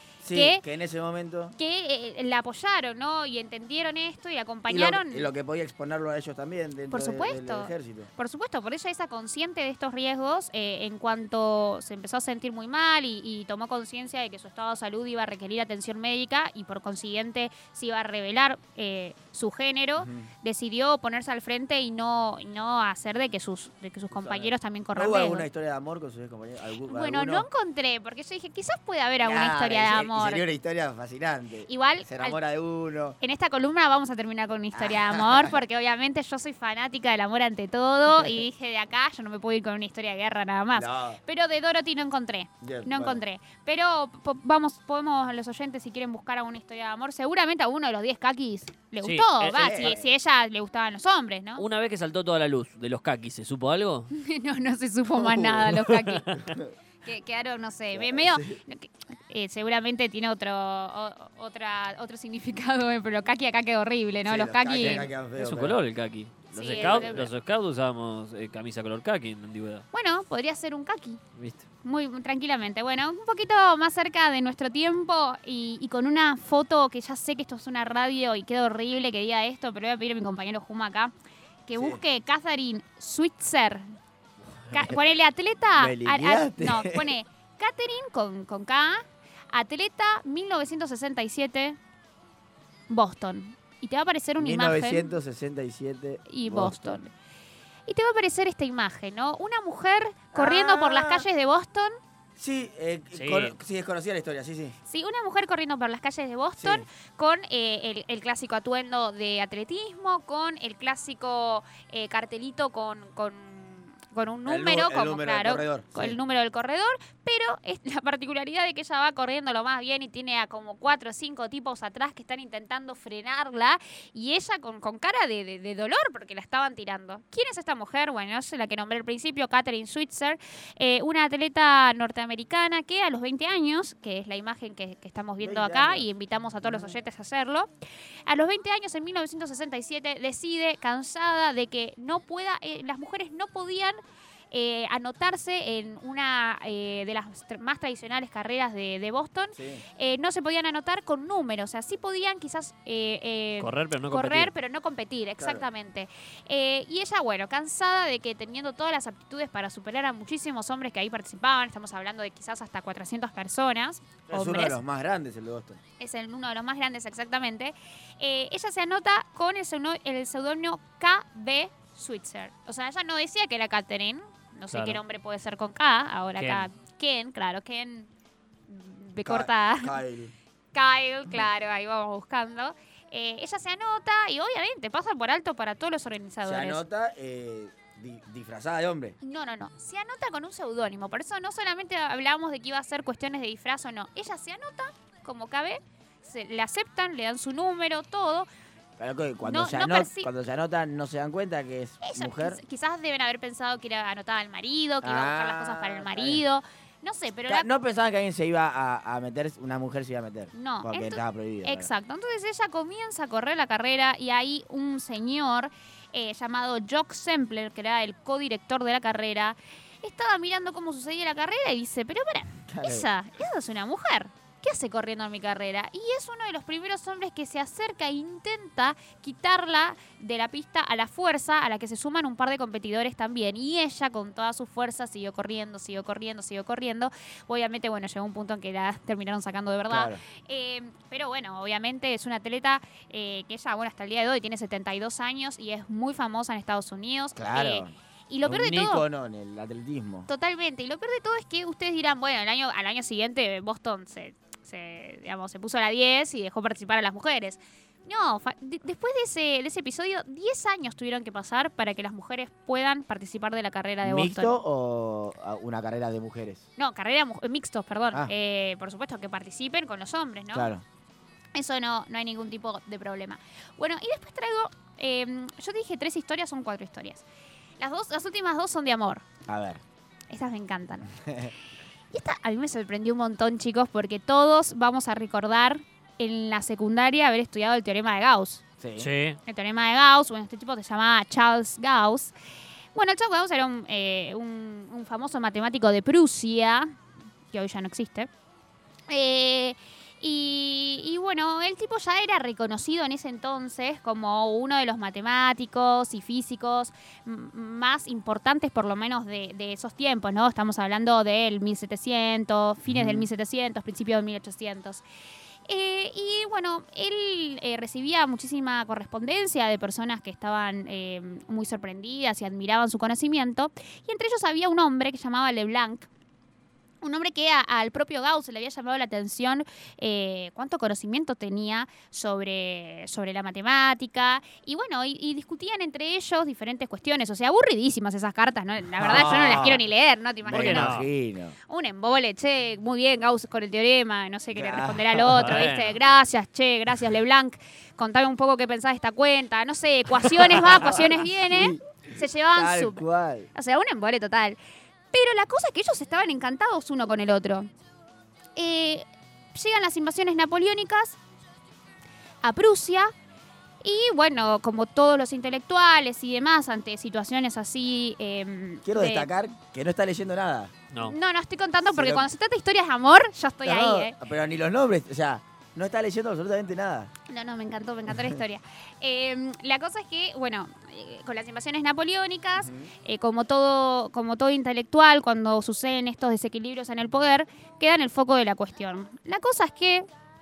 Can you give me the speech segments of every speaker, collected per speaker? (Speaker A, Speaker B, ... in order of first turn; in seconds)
Speaker A: 0.2-1.5, 4.7-8.1, 20.0-20.3, 24.1-27.5, 29.2-33.2, 34.7-35.6, 38.1-38.4, 40.7-41.2, 42.6-43.2, 49.4-50.1, 55.1-55.7, 56.4-56.7, 57.9-58.6, 64.2-65.8, 66.5-67.3, 81.7-82.0, 84.5-85.0, 85.8-87.1, 94.4-97.0, 100.3-101.3, 102.4-104.8, 106.6-106.8, 114.5-116.2, 135.4-136.1, 136.6-136.9, 149.5-149.8, 155.4-155.7, 164.3-165.8, 179.2-180.3, 186.4-189.2, 199.0-202.6, 205.0-206.4, 207.5-211.9, 222.7-223.1, 239.9-240.2, 247.3-247.9, 248.4-250.3, 264.0-266.6, 270.5-270.8, 279.5-279.8, 281.2-281.5, 288.8-289.1, 312.9-313.2, 339.0-339.8, 340.4-341.6, 344.5-345.7, 350.7-353.5, 368.8-370.7, 371.9-372.3, 373.6-377.1, 382.6-382.9
Speaker B: 0.3-0.6, 1.6-5.3, 6.9-25.4, 26.9-30.4, 31.7-32.4, 33.2-51.6, 54.1-56.3, 57.0-65.0, 66.5-67.3, 69.9-71.2, 71.8-81.1, 81.7-83.9, 84.7-91.8, 92.9-95.1, 96.3-97.1, 97.9-102.0, 104.9-137.7, 138.3-144.0, 144.5-164.8, 166.0-178.1, 178.7-179.9, 180.7-186.8, 189.2-198.5, 199.4-200.3, 202.0-207.7, 210.5-249.0, 250.3-264.6, 266.8-270.7, 271.5-277.2, 277.8-279.2, 280.3-281.1, 282.1-288.6, 289.4-292.3, 292.9-296.9, 297.5-298.3, 299.1-315.0, 315.7-326.1, 327.0-341.0, 341.7-354.6, 355.1-357.7, 358.6-361.2, 362.4-363.1, 363.8-369.3, 371.0-374.1, 377.3-390.1
Speaker C: 49.0-50.0, 51.5-54.1, 55.7-56.5, 64.7-69.9, 71.3-71.6, 103.1-103.5, 153.6-154.5, 174.7-175.0, 176.4-176.7, 289.0-289.4, 339.1-339.8, 340.5-341.1, 345.3-345.9